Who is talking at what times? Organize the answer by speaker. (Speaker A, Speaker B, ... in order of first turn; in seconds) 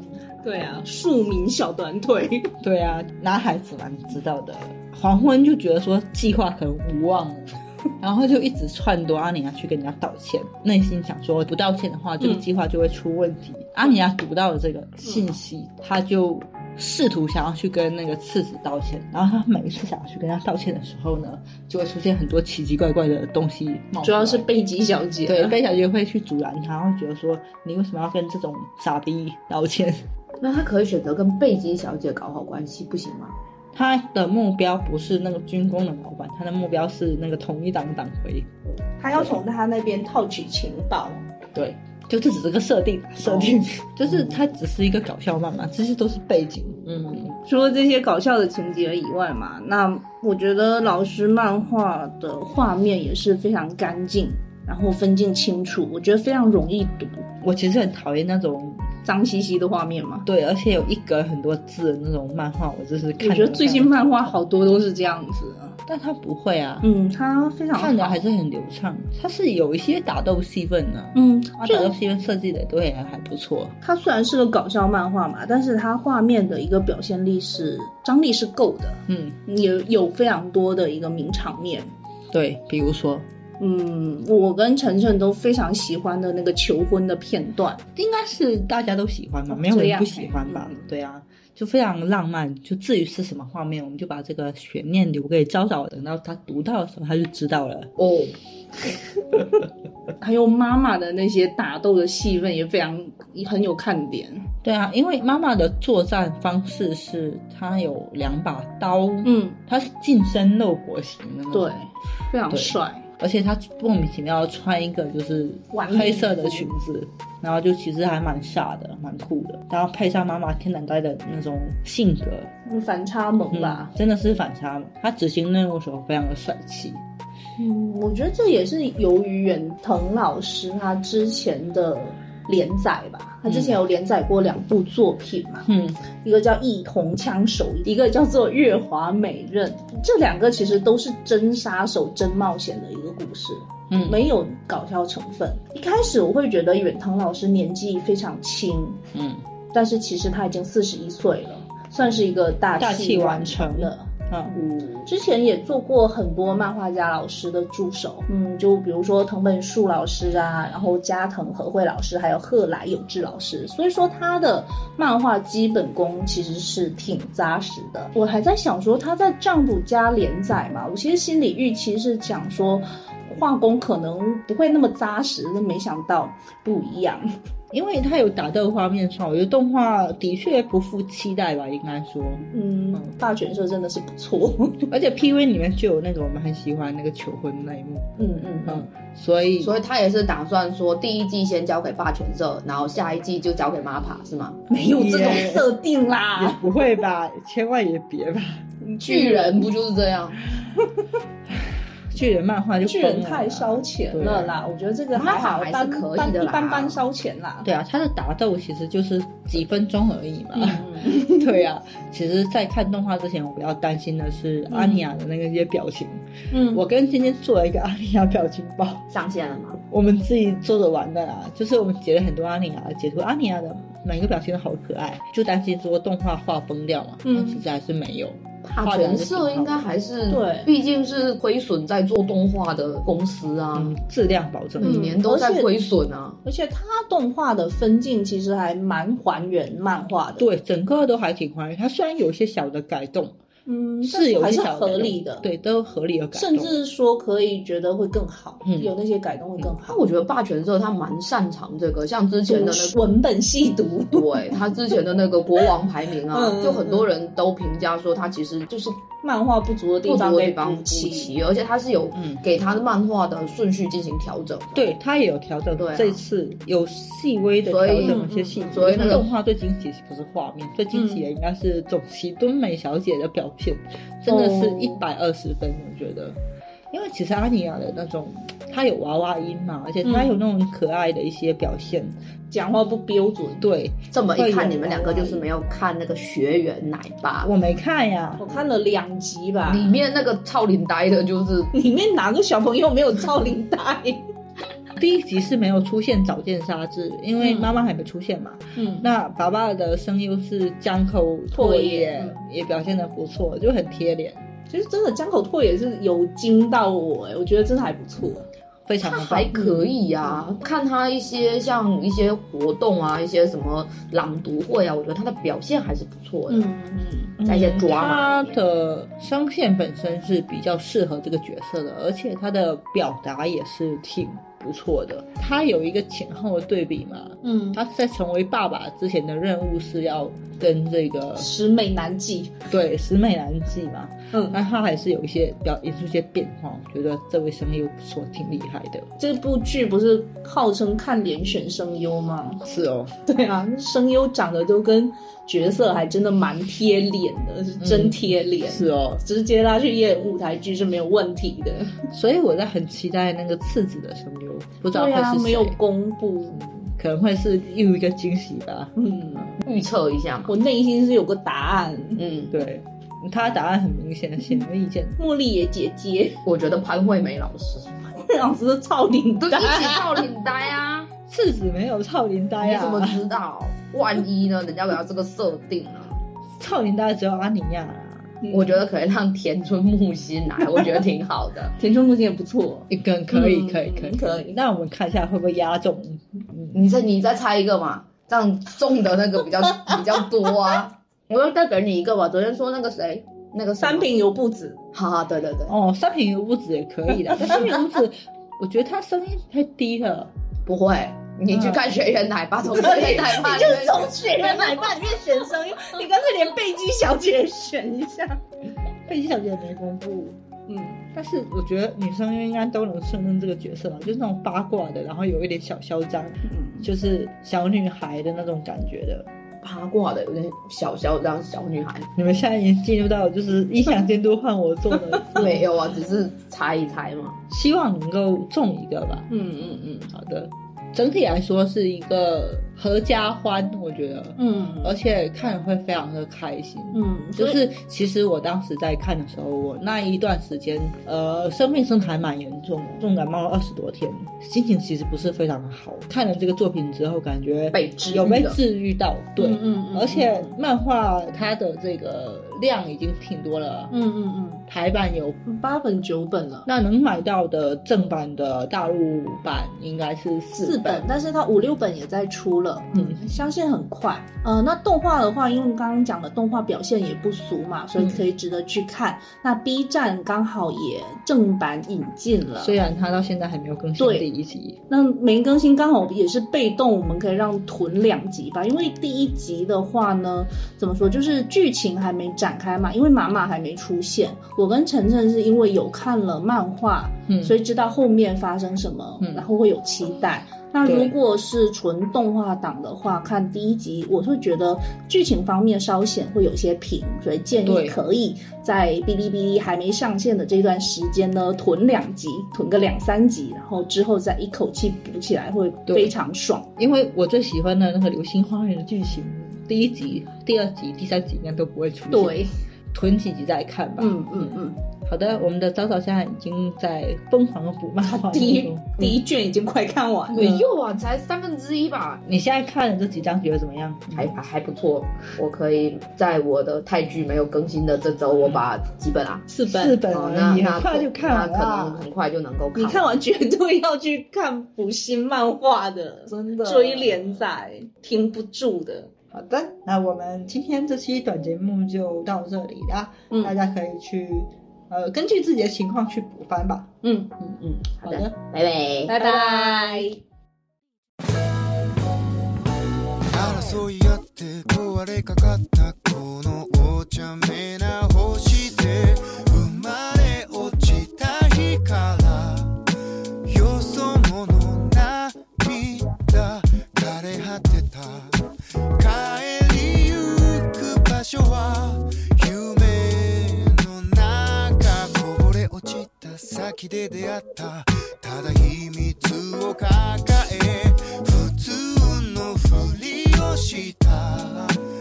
Speaker A: 0.4-2.5, 24.0-25.6, 39.0-41.2, 47.4-57.3, 59.0-60.2, 63.2-65.8, 66.8-68.2, 71.1-71.9, 73.8-81.9, 83.6-87.8, 89.5-90.8, 100.2-104.5, 109.2-109.6, 111.5-113.0, 115.7-116.7, 122.7-123.9, 127.6-149.0, 149.7-154.1, 155.0-177.3, 182.5-184.9, 188.2-188.8, 194.7-196.7, 198.8-199.7, 202.8-207.7, 210.5-211.5, 214.7-215.1, 216.5-216.8, 227.2-227.6, 230.3-230.7, 234.8-235.7, 236.4-240.5, 243.7-245.4, 246.3-250.0, 252.5-254.6, 256.3-257.1, 259.0-261.3, 268.0-269.2, 270.9-271.2, 274.3-275.0, 280.0-280.4, 282.5-283.6, 288.4-290.0, 291.7-294.2, 297.4-297.8, 298.8-299.1, 301.5-302.4, 304.7-308.5, 316.5-317.3, 327.4-327.8, 331.4-332.6, 339.2-342.6, 343.2-352.0, 354.9-356.6, 359.0-359.6, 360.5-362.2, 365.2-366.4, 368.2-370.2, 378.4-378.8, 381.8-384.5, 393.8-394.8, 397.4-397.7, 402.7-408.4, 410.7-411.0, 416.4-416.9, 425.1-425.5, 429.3-430.1, 434.4-434.9, 436.9-437.6, 449.4-450.5, 453.9-454.6, 455.4-456.7, 460.6-472.8, 474.0-474.3, 474.9-506.7, 512.1-512.5, 514.0-514.8, 518.0-520.6, 529.5-530.0, 532.7-539.1, 547.0-547.3, 549.0-550.1
Speaker B: 2.6-24.4, 25.2-30.0, 33.7-38.5, 41.5-47.4, 57.4-58.9, 60.2-64.3, 65.9-66.9, 67.7-73.7, 79.1-79.4, 82.3-83.3, 88.0-97.9, 104.6-111.7, 112.5-122.5, 123.5-127.0, 133.4-133.8, 135.7-136.0, 143.9-144.2, 149.1-149.4, 152.8-154.6, 177.7-183.1, 184.9-188.1, 188.7-189.7, 194.9-195.7, 196.4-198.6, 201.5-204.6, 207.6-219.0, 219.9-229.8, 233.7-235.0, 240.4-243.4, 244.0-246.8, 248.6-248.9, 262.1-262.4, 264.7-276.4, 276.9-282.2, 283.6-285.4, 287.4-288.4, 295.0-304.4, 308.9-309.9, 317.4-331.5, 332.7-339.1, 342.6-343.1, 347.8-349.2, 352.1-355.8, 356.5-359.5, 362.5-365.2, 371.3-373.2, 376.6-378.4, 382.9-386.8, 395.7-400.3, 409.1-410.4, 411.1-419.3, 422.1-425.6, 427.5-429.3, 430.1-453.9, 454.7-455.4, 456.6-461.1, 462.9-463.2, 468.0-468.2, 472.6-474.8, 487.3-487.5, 489.2-489.4, 490.8-491.1, 497.6-498.0, 505.9-506.1, 506.8-518.9, 522.2-524.4, 529.7-532.0, 536.3-537.4, 539.3-548.3, 549.1-550.0
Speaker C: 30.4-33.4, 98.0-98.3, 189.6-194.6, 199.0-200.4, 205.1-207.0, 219.1-219.8, 228.6-233.9, 234.8-236.4, 249.8-253.0, 254.1-259.0, 260.0-264.8, 265.8-266.2, 267.6-269.3, 284.1-287.5, 289.6-291.7, 309.0-316.7, 317.4-318.6, 359.6-360.5, 362.1-362.6, 366.4-368.1, 369.4-371.1, 372.6-376.2, 378.5-381.8, 386.7-394.1, 394.9-395.8, 400.6-404.8, 419.6-422.1, 425.3-427.4, 447.7-448.6, 520.3-522.2, 524.1-529.5, 530.1-533.1, 547.6-549.1
Speaker D: 553.3-562.8, 563.4-584.8